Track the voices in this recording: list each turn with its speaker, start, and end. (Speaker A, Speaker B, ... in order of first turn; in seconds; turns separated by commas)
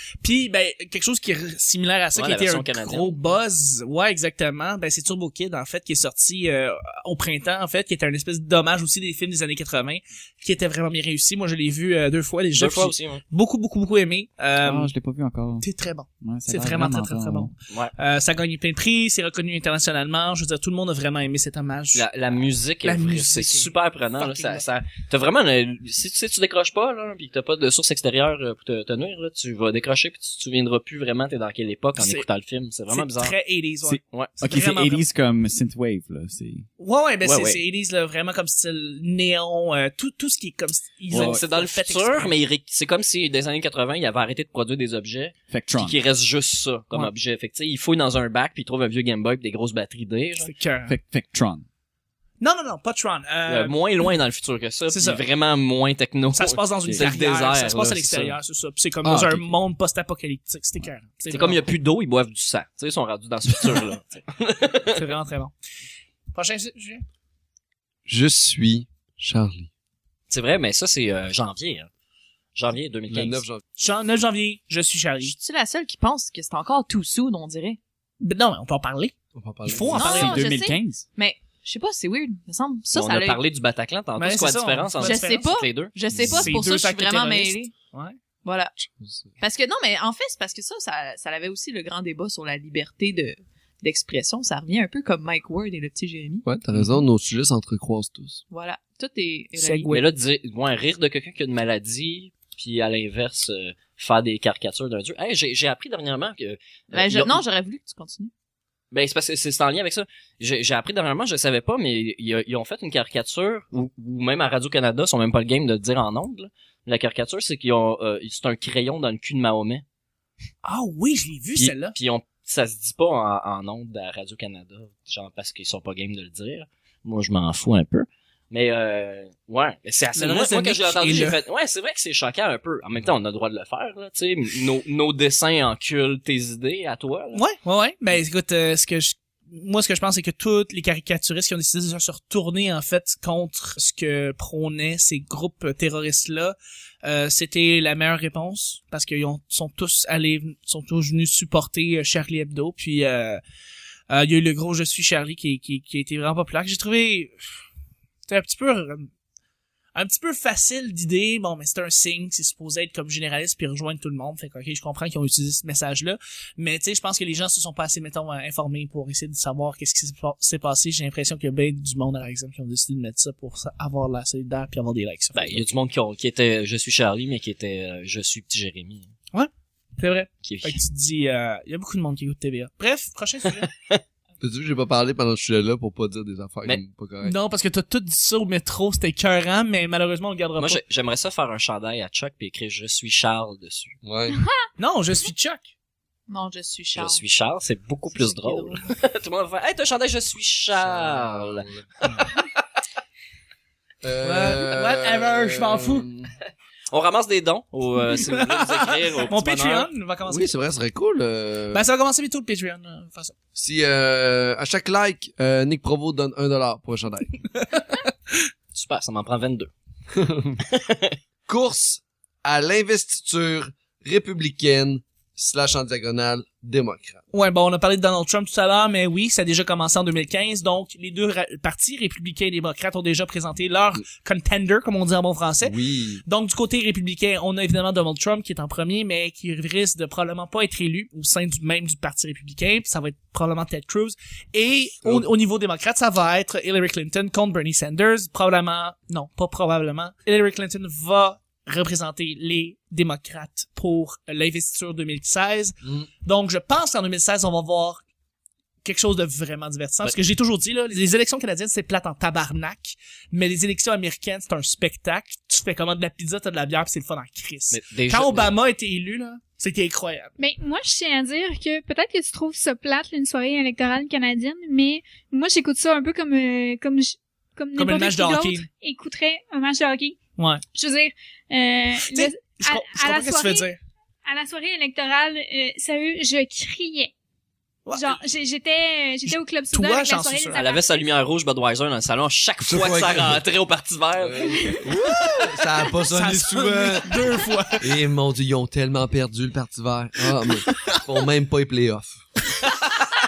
Speaker A: 0.2-14.9, Speaker B: 2.1-3.1, Speaker B: 12.5-13.2, Speaker C: 14.6-15.7, Speaker A: 15.6-22.1, Speaker C: 16.2-17.5, Speaker B: 21.9-33.4, Speaker A: 22.8-24.6, Speaker A: 32.0-32.2, Speaker A: 32.9-35.0, Speaker C: 33.8-36.7, Speaker B: 34.1-34.4, Speaker A: 36.8-42.3, Speaker B: 37.2-37.6, Speaker C: 41.1-41.4, Speaker B: 41.1-50.5, Speaker C: 45.5-46.0, Speaker A: 50.4-51.0, Speaker C: 50.9-51.6, Speaker A: 52.4-53.8, Speaker B: 53.5-58.3, Speaker A: 54.9-55.2, Speaker A: 56.3-61.7, Speaker C: 59.0-59.4, Speaker B: 61.3-65.0, Speaker A: 64.9-65.5, Speaker A: 66.3-67.0, Speaker D: 68.0-69.7, Speaker B: 70.3-71.9, Speaker B: 72.5-73.4, Speaker D: 73.1-73.6, Speaker A: 73.8-75.3, Speaker E: 75.2-77.8, Speaker A: 78.2-79.1, Speaker D: 79.3-80.0, Speaker A: 79.6-80.4, Speaker E: 79.9-83.4, Speaker C: 80.0-81.0, Speaker B: 82.9-86.0, Speaker A: 84.2-85.5, Speaker E: 85.0-87.7, Speaker A: 86.1-88.2, Speaker D: 86.1-86.5, Speaker E: 88.4-88.7, Speaker D: 88.8-89.3, Speaker E: 89.4-96.5, Speaker D: 96.4-98.4, Speaker E: 98.5-100.0, Speaker A: 99.5-100.0, Speaker B: 99.9-107.4, Speaker E: 106.9-108.3, Speaker B: 108.9-119.8, Speaker A: 120.6-122.0, Speaker B: 121.6-137.4, Speaker A: 130.1-131.4, Speaker A: 137.3-153.4, Speaker A: 154.1-157.4, Speaker A: 158.3-159.1, Speaker A: 159.9-175.6, Speaker B: 175.3-179.1, Speaker A: 179.3-183.7, Speaker B: 180.4-180.8, Speaker D: 184.4-187.3, Speaker A: 187.2-190.8, Speaker B: 190.6-193.9, Speaker D: 194.0-194.4, Speaker A: 194.8-195.7, Speaker E: 196.3-197.2, Speaker B: 196.9-201.7, Speaker E: 198.1-198.9, Speaker D: 200.8-201.9, Speaker D: 204.0-206.3, Speaker A: 204.2-206.1, Speaker B: 206.9-209.9, Speaker A: 208.1-210.5, Speaker D: 210.3-211.8, Speaker A: 211.7-213.3, Speaker D: 213.6-217.4, Speaker A: 217.6-218.3, Speaker B: 218.7-219.7, Speaker D: 220.1-220.6, Speaker B: 220.7-221.2, Speaker D: 221.5-227.2, Speaker A: 227.3-258.0, Speaker D: 235.6-236.2, Speaker A: 258.8-270.3, Speaker B: 267.7-268.5, Speaker F: 270.4-280.2, Speaker A: 277.8-278.7, Speaker A: 280.4-280.6, Speaker F: 280.7-283.7, Speaker A: 282.1-283.8, Speaker F: 284.2-287.1, Speaker A: 287.9-288.2, Speaker F: 287.9-290.9, Speaker A: 289.2-290.6, Speaker B: 290.5-294.8, Speaker D: 292.6-293.4, Speaker D: 294.2-302.2, Speaker A: 295.0-295.4, Speaker A: 296.0-297.9, Speaker A: 300.6-301.0